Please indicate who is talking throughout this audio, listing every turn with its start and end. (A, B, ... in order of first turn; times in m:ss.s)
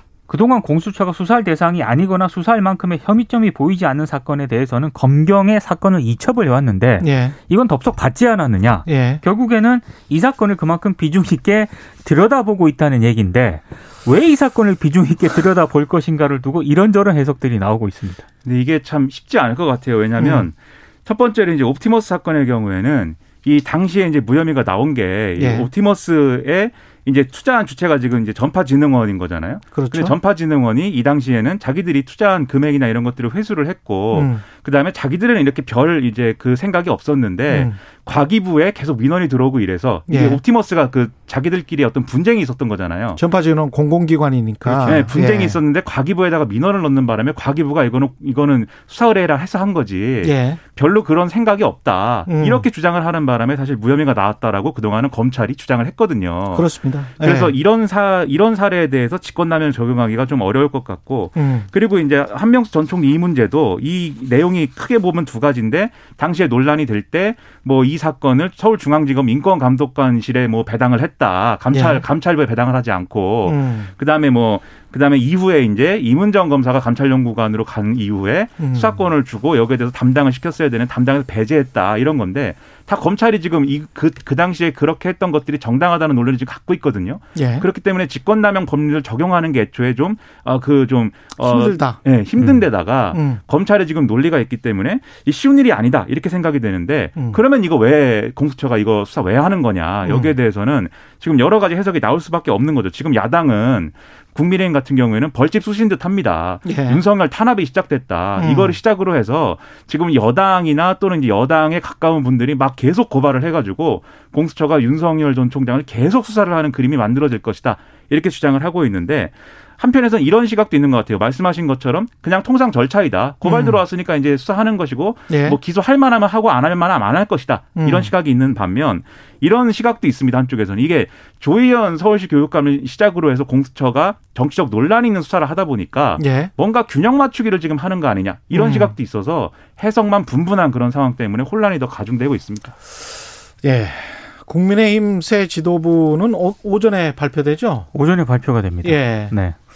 0:00.3-0:18.2 A
0:07.0-0:07.4 B
0:08.8-0:09.2 B
0:18.4-0:43.2 C
0:20.2-0:20.5 B
0:25.4-0:25.7 B
0:29.7-0:30.2 B
0:34.1-0:34.4 B
0:37.5-0:37.8 B
0:40.1-0:40.4 B
0:43.2-0:45.6 B
0:44.6-2:22.8 C
0:50.2-0:50.6 B
0:52.3-0:52.7 B
0:56.5-0:57.5 B
1:01.4-1:01.7 B
1:11.7-1:12.0 B
1:13.4-1:13.9 B
1:18.6-1:19.0 B
1:27.3-1:27.6 B
1:31.4-1:33.4 B
1:37.2-1:37.4 B
1:40.0-1:40.3 B
1:46.6-1:47.0 B
1:48.4-1:48.8 B
2:03.4-2:03.8 B
2:05.3-2:05.6 B
2:07.8-2:08.1 B
2:16.2-2:16.5 B
2:18.5-2:18.9 B
2:23.6-2:27.9 B
2:27.9-2:29.6 A
2:28.8-2:29.4 B